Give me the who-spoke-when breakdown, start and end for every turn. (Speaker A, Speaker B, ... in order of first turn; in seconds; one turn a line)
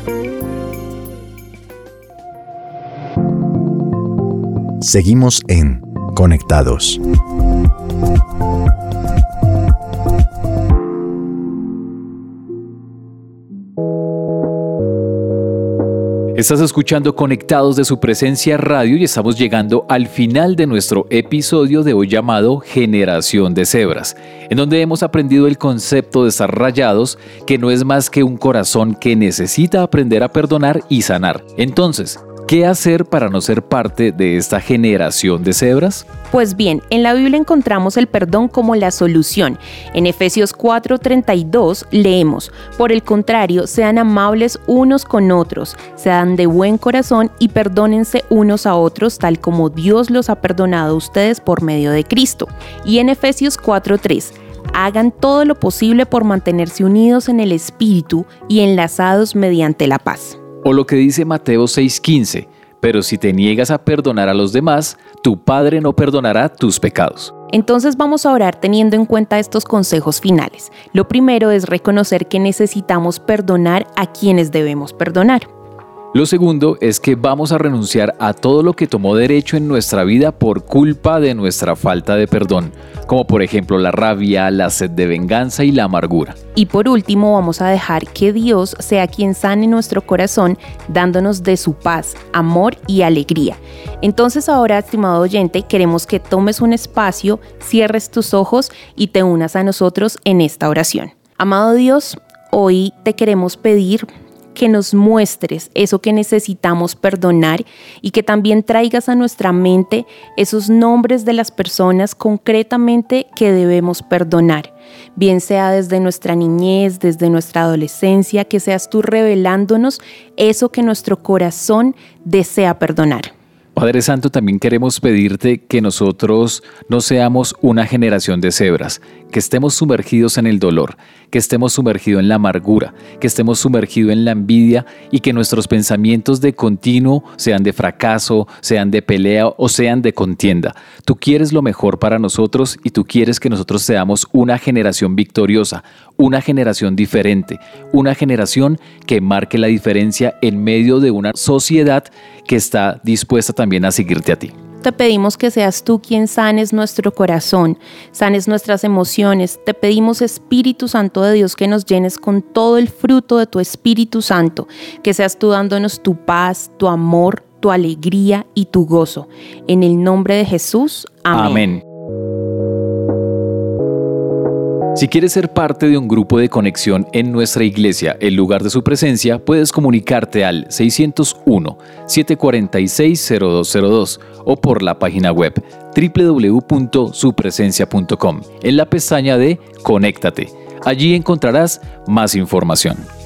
Speaker A: 4.8-7.0
Speaker B: 16.4-36.0
Speaker C: 36.3-60.4
Speaker B: 60.6-67.3
Speaker C: 67.5-75.5
Speaker B: 76.1-86.4
Speaker C: 86.5-123.3
Speaker B: 123.8-154.5
Speaker C: 154.8-171.7
Speaker B: 171.3-171.8
Speaker B: 174.9-193.1